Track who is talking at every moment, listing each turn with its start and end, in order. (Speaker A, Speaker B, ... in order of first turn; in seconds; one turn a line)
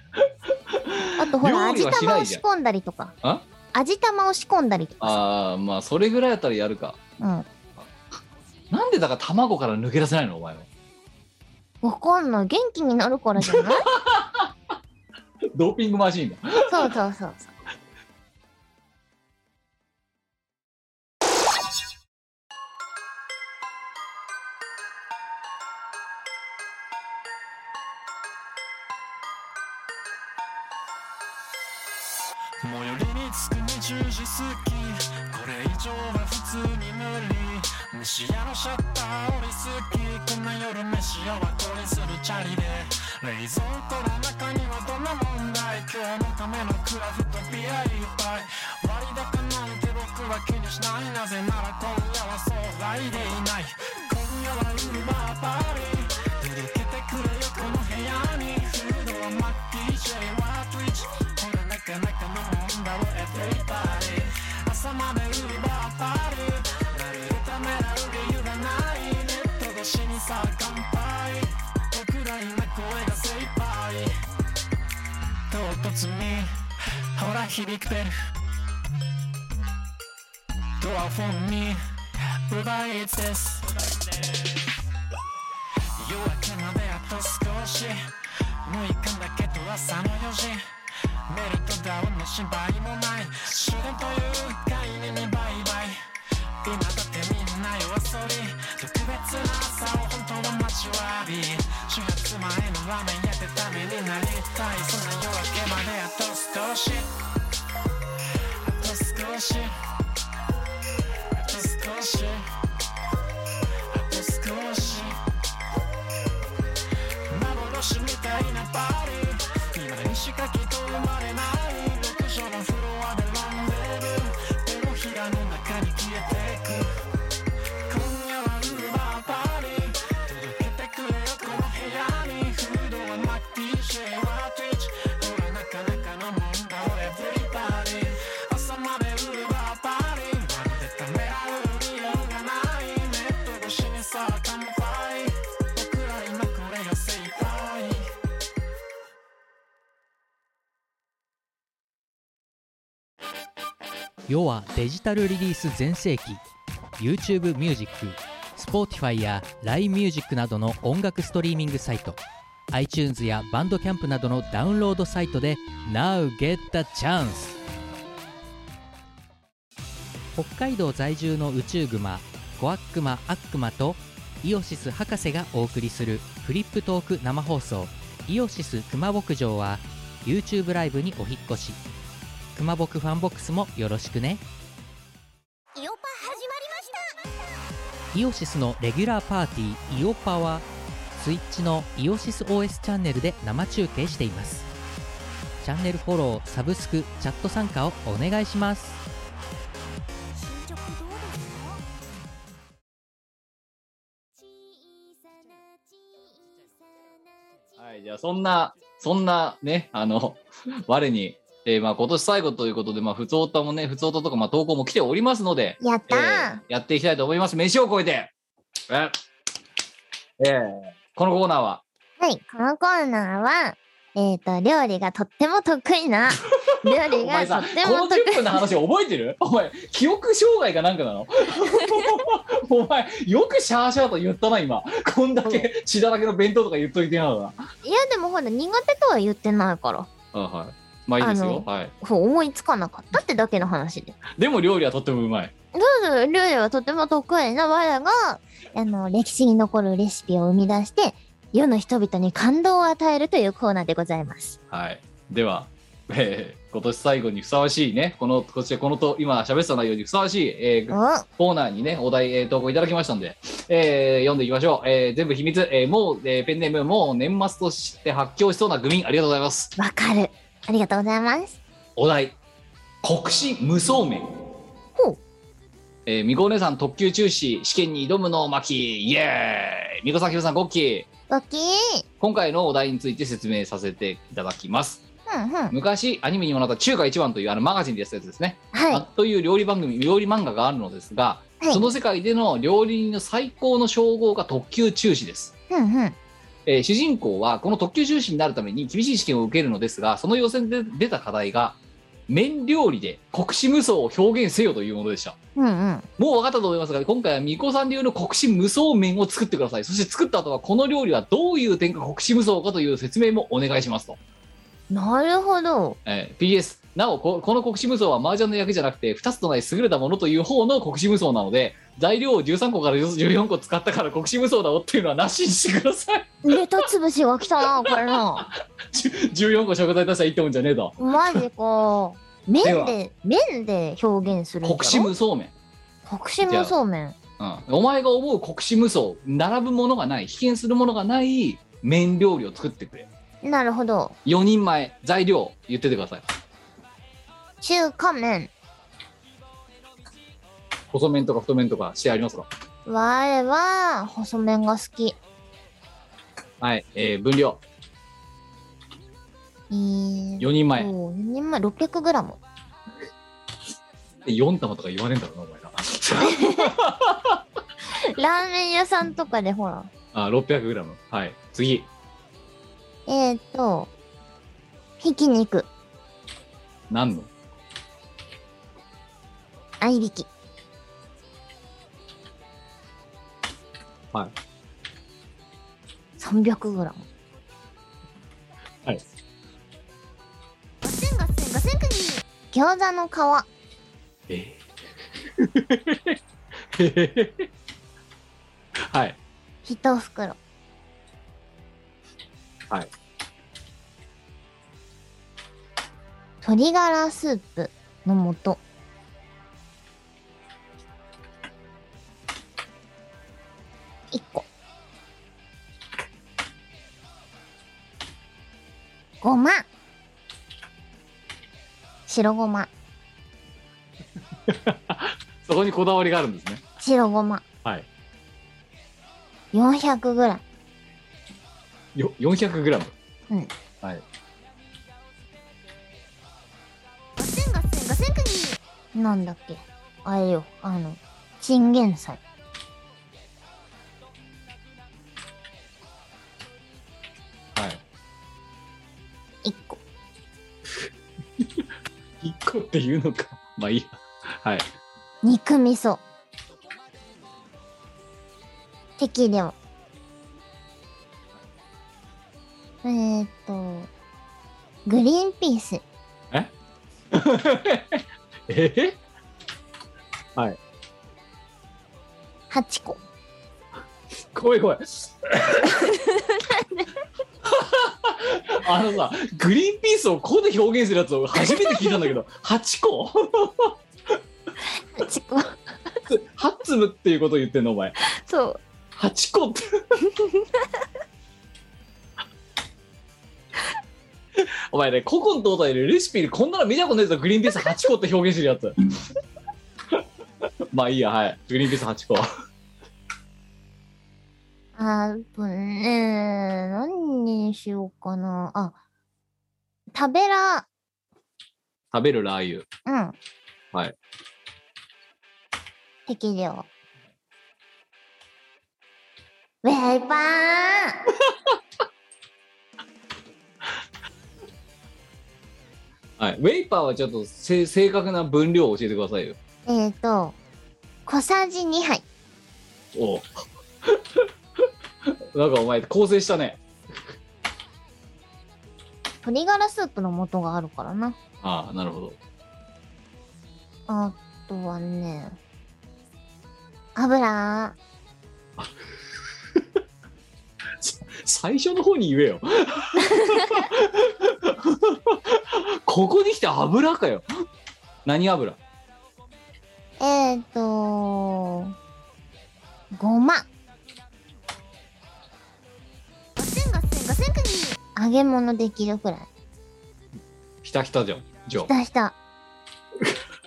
Speaker A: 0.1-2.4
Speaker B: 1.2-3.1
Speaker B: 3.7-5.2
Speaker A: 5.0-7.0
Speaker B: 7.2-7.5
Speaker A: 8.7-10.7
Speaker B: 11.8-13.8
Speaker A: 13.4-14.5
Speaker A: 15.5-16.9
Speaker B: 16.7-17.5
Speaker C: 32.6-74.1
Speaker C: 75.5-76.5
Speaker C: 77.1-78.1
Speaker C: 80.8-81.8
Speaker C: 82.5-83.8
Speaker C: 86.0-88.0
Speaker C: 88.6-90.6
Speaker C: 91.3-96.0
Speaker C: 96.6-107.1
Speaker C: 108.6-109.7
Speaker C: 111.3-112.4
Speaker C: 113.9-115.2
Speaker C: 117.3-126.9
Speaker C: 127.9-148.1
Speaker D: 154.3-156.4
Speaker D: 157.0-162.2
Speaker D: 162.7-167.6
Speaker D: 170.3-181.8
Speaker D: 182.5-184.4
Speaker E: 185.8-187.1
Speaker D: 188.1-194.7
Speaker D: 195.6-199.0
Speaker E: 200.3-201.8
Speaker A: 207.8-218.3
Speaker B: 215.8-216.6
Speaker A: 218.9-219.2
Speaker A: 220.4-221.8
Speaker B: 222.2-228.6
Speaker A: 226.6-237.6
Speaker B: 237.8-240.1
Speaker A: 240.3-241.9
Speaker B: 241.2-244.2
Speaker A: 244.3-245.5
Speaker B: 245.7-254.6
Speaker A: 254.7-269.7
Speaker B: 260.9-261.2
Speaker B: 269.8-271.6
Speaker A: 272.0-272.4
Speaker A: 273.0-274.5
Speaker A: 276.1-281.1
Speaker B: 281.3-282.0
Speaker A: 282.2-285.0
Speaker B: 285.3-285.7
Speaker A: 285.7-295.5
Speaker B: 288.7-289.1
Speaker B: 291.6-291.9
Speaker B: 295.7-296.1
Speaker A: 296.6-305.4
Speaker B: 305.6-306.1
Speaker A: 306.2-314.2
Speaker B: 314.9-316.0
Speaker A: 316.1-326.9
Speaker B: 326.4-328.5
Speaker A: 327.6-331.4
Speaker B: 331.0-335.1
Speaker A: 332.6-333.0
Speaker A: 334.6-335.5
Speaker B: 336.1-337.1
Speaker A: 336.4-336.7
Speaker A: 337.4-343.1
Speaker B: 343.4-344.1
Speaker A: 344.2-346.2
Speaker B: 347.6-348.5
Speaker A: 350.9-352.5
Speaker B: 352.9-355.2
Speaker A: 356.6-357.6
Speaker B: 359.7-362.4
Speaker A: 360.4-360.9
Speaker A: 364.2-367.4
Speaker B: 366.2-366.7
Speaker B: 368.0-369.9
Speaker A: 370.1-371.9
Speaker B: 373.1-373.9
Speaker B: 375.0-375.7
Speaker A: 376.9-377.3
Speaker B: 379.8-380.3
Speaker B: 386.2-387.1
Speaker B: 390.8-393.5
Speaker A: 394.3-394.6
Speaker A: 395.2-396.2
Speaker A: 396.7-397.5
Speaker A: 398.8-399.2
Speaker B: 399.6-400.4
Speaker B: 406.4-408.6
Speaker B: 414.1-414.4
Speaker B: 419.2-419.6
Speaker B: 422.1-422.7
Speaker A: 424.5-426.6
Speaker B: 426.8-427.4
Speaker B: 429.5-430.4
Speaker A: 431.9-432.9
Speaker B: 437.2-442.2
Speaker A: 447.5-447.8
Speaker B: 449.4-449.8
Speaker A: 451.4-451.6
Speaker A: 452.2-454.6
Speaker B: 455.2-456.0
Speaker B: 459.0-459.6
Speaker B: 462.8-463.9
Speaker B: 464.8-465.8
Speaker A: 467.1-469.0
Speaker B: 472.5-473.0
Speaker A: 474.3-475.9
Speaker B: 475.8-476.9
Speaker A: 477.4-483.7
Speaker B: 481.5-482.0
Speaker B: 484.9-485.6
Speaker A: 486.1-487.9
Speaker B: 488.1-488.6
Speaker A: 488.9-490.0
Speaker B: 490.1-490.4
Speaker A: 494.4-498.7
Speaker A: 500.7-502.3
Speaker B: 504.8-508.8
Speaker B: 509.9-510.6
Speaker A: 511.9-512.6
Speaker B: 512.9-513.1
Speaker B: 516.1-516.7
Speaker B: 519.6-521.0
Speaker A: 521.2-521.5
Speaker A: 526.2-529.4
Speaker B: 529.6-530.4
Speaker B: 531.0-532.0
Speaker A: 532.9-534.3
Speaker A: 535.0-536.6
Speaker B: 539.2-541.2
Speaker A: 541.4-542.2
Speaker B: 543.9-545.4
Speaker B: 546.9-547.8
Speaker A: 550.8-557.2
Speaker A: 558.0-558.6
Speaker B: 560.0-561.7
Speaker B: 562.9-563.5
Speaker B: 566.4-569.3
Speaker A: 570.6-571.7
Speaker B: 571.6-572.1